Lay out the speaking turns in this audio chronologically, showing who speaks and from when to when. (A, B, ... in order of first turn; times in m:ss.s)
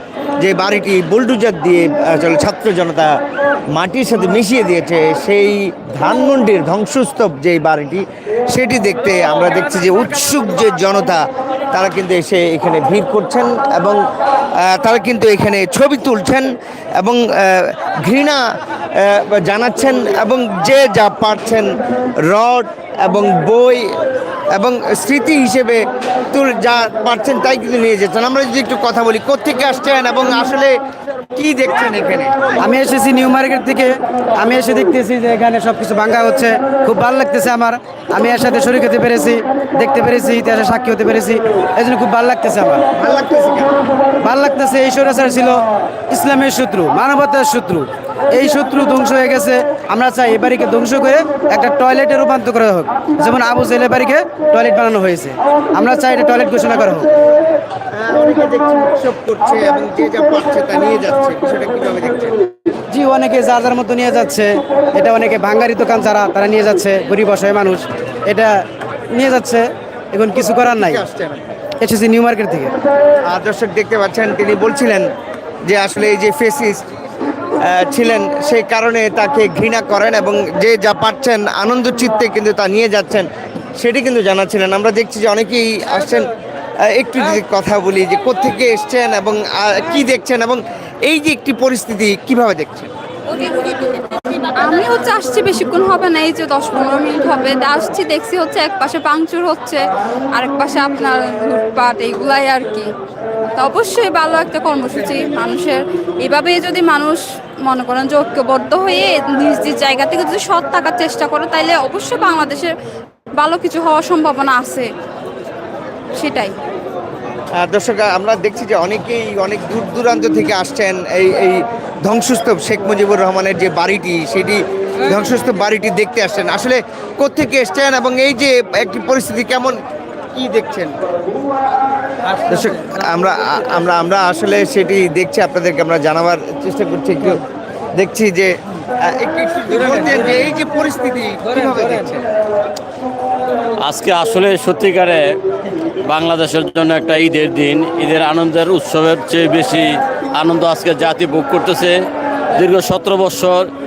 0:00.4-0:03.2 A
0:03.7-0:14.0 A
0:14.6-0:18.4 A
0:19.0-0:24.0 A
0:24.5-0:30.7 A
0:31.4-0:32.4 A
0:32.6-0:42.8 B
0:43.0-0:43.8 A
0:44.2-0:57.1 B
0:57.9-1:02.4 A
1:02.9-1:08.6 B
1:09.1-1:11.0 B
1:10.8-1:11.4 A
1:11.8-1:12.8 B
1:13.2-1:15.0 A
1:15.7-1:16.8 A
1:17.6-1:23.3 A
1:23.8-1:26.2 A
1:26.9-1:32.9 A
1:33.3-1:42.9 C
1:43.5-1:52.7 C
1:53.3-1:54.9 C
1:56.1-1:56.5 C
1:57.6-2:09.8 A
2:10.3-2:10.9 A
2:12.4-2:17.4 A
2:18.0-2:18.5 A
2:19.0-2:22.2 A
2:23.8-2:25.2 D
2:26.0-2:32.0 D
2:32.5-2:33.7 D